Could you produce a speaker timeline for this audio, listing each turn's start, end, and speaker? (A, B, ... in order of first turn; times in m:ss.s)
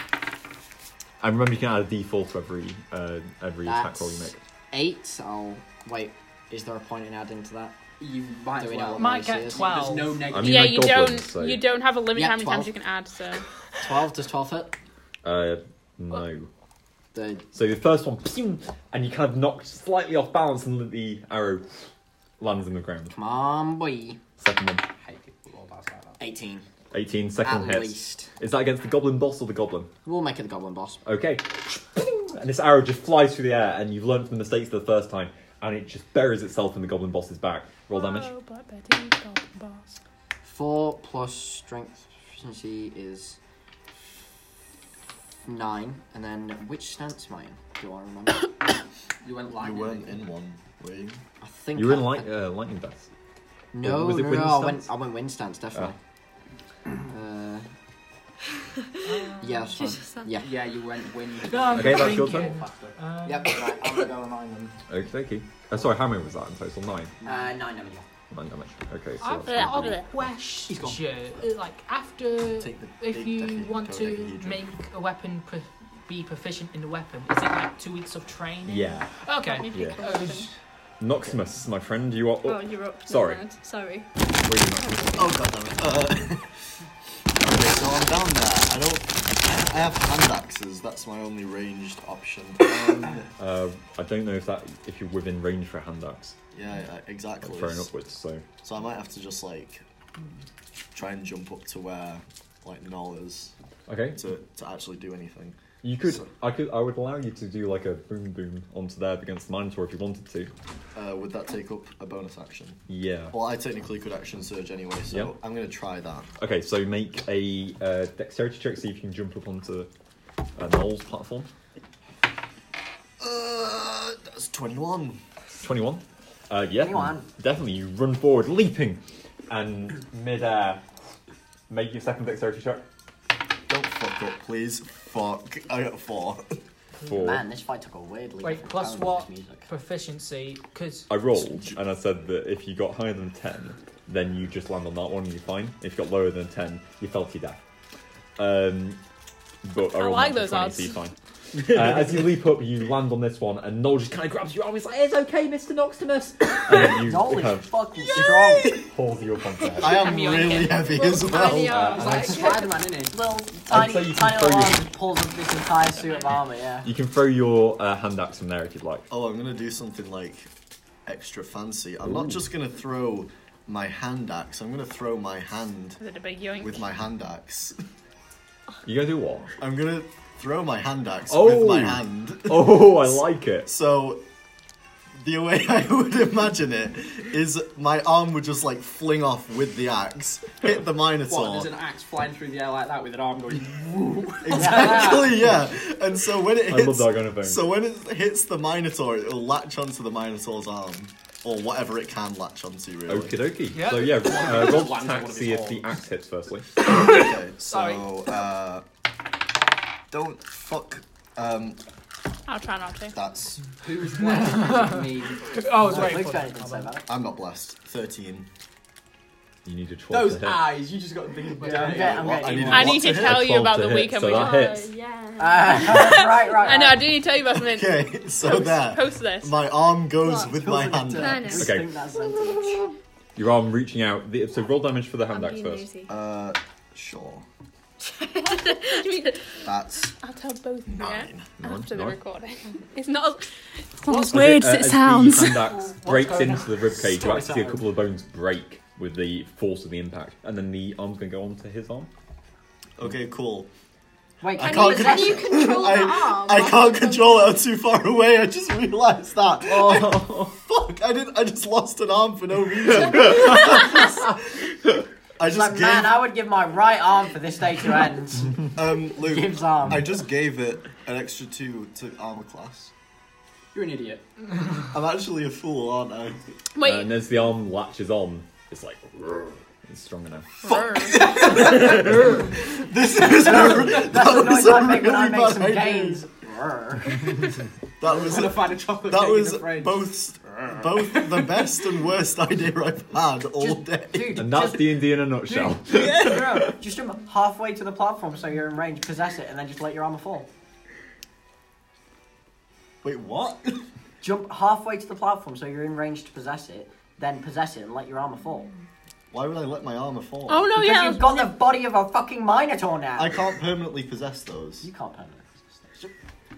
0:01.2-0:04.4 A
0:03.6-0:07.8 B
0:08.0-0:10.8 C
0:08.6-0:09.7 B
0:09.0-0:10.3 D
0:10.3-0:11.6 A
0:10.4-0:13.4 E
0:12.1-0:12.7 B
0:13.8-0:14.8 B
0:15.2-0:16.5 A
0:17.1-0:17.5 B
0:17.5-0:21.7 A
0:22.4-0:23.1 A
0:23.1-0:24.2 B
0:24.4-0:24.8 A
0:25.0-0:26.2 C
0:26.2-0:26.6 B
0:26.9-0:29.9 A
0:27.4-0:28.3 B
0:30.0-0:31.0 B
0:31.0-0:38.3 A
0:37.9-0:40.0 E
0:40.4-0:43.4 B
0:45.4-0:48.5 B
0:49.2-0:50.3 C
0:49.5-0:51.2 F
0:51.4-0:52.3 B
0:51.8-0:53.1 A
0:53.7-0:56.0 B
0:53.8-0:54.9 A
0:57.0-0:57.6 B
0:59.0-0:59.9 D
0:59.4-1:00.6 B
0:59.8-1:00.3 G
1:00.4-1:03.0 C
1:01.4-1:03.8 D
1:01.7-1:02.5 A
1:03.2-1:04.8 B
1:04.9-1:07.1 A
1:07.2-1:07.5 C
1:07.2-1:08.1 B
1:08.3-1:10.0 A
1:09.2-1:20.5 D
1:09.4-1:10.1 E
1:10.7-1:11.0 C
1:12.6-1:14.7 F
1:18.6-1:19.1 A
1:19.5-1:20.4 G
1:19.7-1:20.0 A
1:21.0-1:23.5 A
1:22.4-1:24.1 G
1:24.4-1:25.3 A
1:24.8-1:25.1 G
1:25.1-1:26.5 F
1:27.4-1:33.3 F
1:33.4-1:36.4 A
1:36.5-1:37.9 F
1:37.4-1:38.4 A
1:38.6-1:39.8 F
1:40.9-1:43.5 F
1:43.9-1:44.2 A
1:44.1-1:46.3 F
1:45.8-1:50.5 A
1:51.0-1:56.3 F
1:52.9-1:53.4 A
1:55.1-1:55.4 A
1:56.4-1:59.9 A
2:00.6-2:01.5 A
2:03.2-2:05.2 F
2:05.6-2:10.8 A
2:06.8-2:07.3 B
2:11.7-2:12.8 A
2:13.7-2:16.6 F
2:17.0-2:17.3 D
2:17.0-2:17.4 A
2:17.1-2:19.7 B
2:18.4-2:21.1 D
2:21.1-2:27.6 A
2:21.4-2:21.8 F
2:28.4-2:29.0 A
2:29.6-2:37.8 A
2:30.0-2:31.0 E
2:36.7-2:38.8 B
2:38.6-2:40.2 A
2:39.8-2:41.8 F
2:39.9-2:40.8 E
2:40.4-2:40.7 D
2:40.7-2:42.7 G
2:41.4-2:42.6 A
2:41.7-2:43.2 C
2:43.1-2:46.9 B
2:43.7-2:44.9 A
2:46.8-2:49.1 A
2:49.1-2:50.5 F
2:51.1-2:56.0 F
2:52.0-2:52.4 A
2:56.0-2:56.9 E
2:56.6-2:57.8 F
2:58.8-2:59.5 A
2:59.6-3:04.2 F
3:01.3-3:03.7 A
3:05.2-3:11.7 F
3:11.3-3:15.5 C
3:14.4-3:23.4 F
3:14.5-3:15.3 B
3:16.7-3:17.6 A
3:23.1-3:26.7 A
3:23.7-3:24.9 D
3:24.2-3:25.9 C
3:26.9-3:28.8 F
3:26.9-3:28.1 D
3:30.1-3:31.8 F
3:32.5-3:33.2 E
3:33.1-3:33.6 F
3:33.8-3:35.4 C
3:34.2-3:36.9 D
3:35.8-3:37.1 B
3:37.1-3:38.5 F
3:39.6-3:40.8 A
3:40.1-3:43.0 C
3:41.6-3:41.9 D
3:41.6-3:43.6 F
3:41.6-3:42.9 B
3:42.7-3:44.7 E
3:43.0-3:44.9 A
3:44.2-3:46.9 G
3:45.4-3:47.1 B
3:45.8-3:49.6 E
3:47.5-3:51.6 F
3:50.2-3:50.5 G
3:50.4-3:52.9 B
3:51.1-3:51.8 G
3:51.6-3:51.9 A
3:53.4-3:55.9 A
3:55.3-3:56.2 G
3:56.1-3:57.4 F
3:58.0-3:59.4 G
3:58.4-3:59.4 E
3:59.6-4:00.1 F
4:00.1-4:05.7 E
4:00.9-4:01.6 F
4:01.6-4:02.2 A
4:04.1-4:04.5 D
4:04.3-4:12.1 A
4:05.8-4:06.1 D
4:06.1-4:07.8 C
4:13.0-4:13.7 F
4:14.4-4:15.6 B
4:14.6-4:17.6 G
4:14.6-4:26.2 F
4:19.7-4:20.5 A
4:23.1-4:23.4 A
4:25.5-4:30.2 B
4:28.7-4:32.9 F
4:33.7-4:34.3 C
4:34.9-4:36.4 F
4:36.8-4:37.2 E
4:36.8-4:40.5 A
4:40.6-4:46.3 F
4:40.6-4:41.4 E
4:43.2-4:47.3 B
4:48.0-4:54.4 F
4:48.0-4:51.6 C
4:53.6-4:55.1 B
4:54.4-4:56.7 A
4:55.7-4:56.5 C
4:56.1-5:00.5 B
5:03.0-5:03.8 F
5:04.2-5:08.7 B
5:09.3-5:10.8 F
5:10.5-5:11.5 E
5:10.7-5:13.4 B
5:13.2-5:14.9 F
5:14.8-5:16.0 B